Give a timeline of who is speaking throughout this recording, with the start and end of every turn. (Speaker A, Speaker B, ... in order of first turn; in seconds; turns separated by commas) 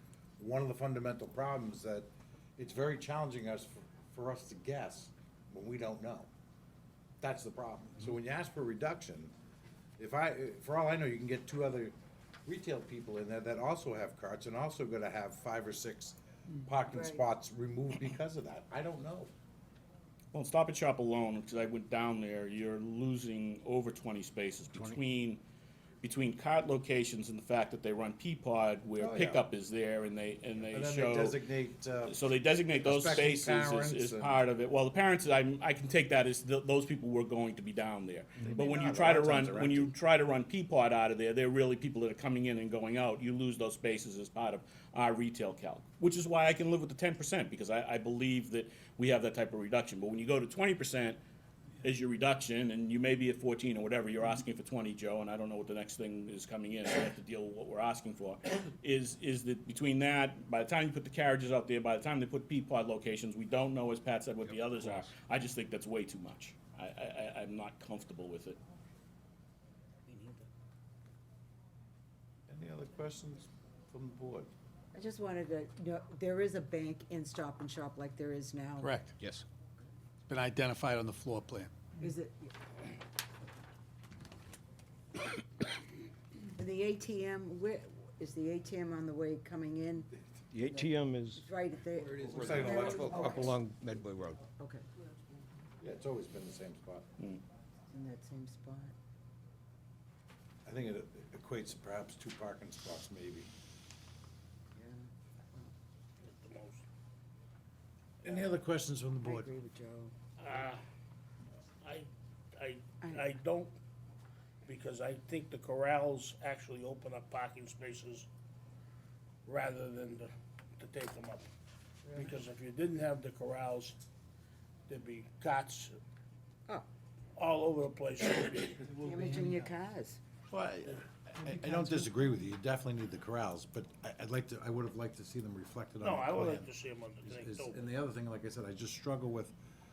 Speaker A: 0.4-6.3, Speaker A: 7.2-9.3, Speaker A: 10.0-11.9, Speaker A: 12.5-19.3, Speaker B: 16.9-17.2, Speaker C: 20.3-25.4, Speaker C: 26.0-31.4, Speaker A: 29.0-29.5, Speaker A: 30.7-32.2, Speaker C: 32.1-51.2, Speaker A: 32.7-34.4, Speaker A: 38.4-40.0, Speaker C: 51.8-68.6, Speaker B: 70.1-70.5, Speaker A: 72.5-74.5, Speaker B: 74.9-79.0, Speaker D: 78.8-79.4, Speaker D: 80.3-81.7, Speaker B: 82.0-82.5, Speaker B: 86.6-93.6, Speaker E: 90.5-94.4, Speaker A: 92.3-93.4, Speaker B: 94.4-94.9, Speaker A: 95.8-97.1, Speaker B: 97.9-98.9, Speaker A: 100.7-103.5, Speaker B: 104.8-105.7, Speaker F: 106.2-106.8, Speaker A: 108.2-109.5, Speaker F: 108.3-108.5, Speaker B: 109.2-110.2, Speaker F: 110.4-110.8, Speaker F: 111.8-113.8, Speaker B: 113.0-113.3, Speaker F: 114.7-118.3, Speaker F: 119.5-121.5, Speaker F: 122.1-124.0, Speaker F: 124.9-126.0, Speaker F: 127.4-128.9, Speaker B: 128.9-130.2, Speaker A: 130.5-136.7, Speaker F: 136.0-137.8, Speaker A: 137.2-139.6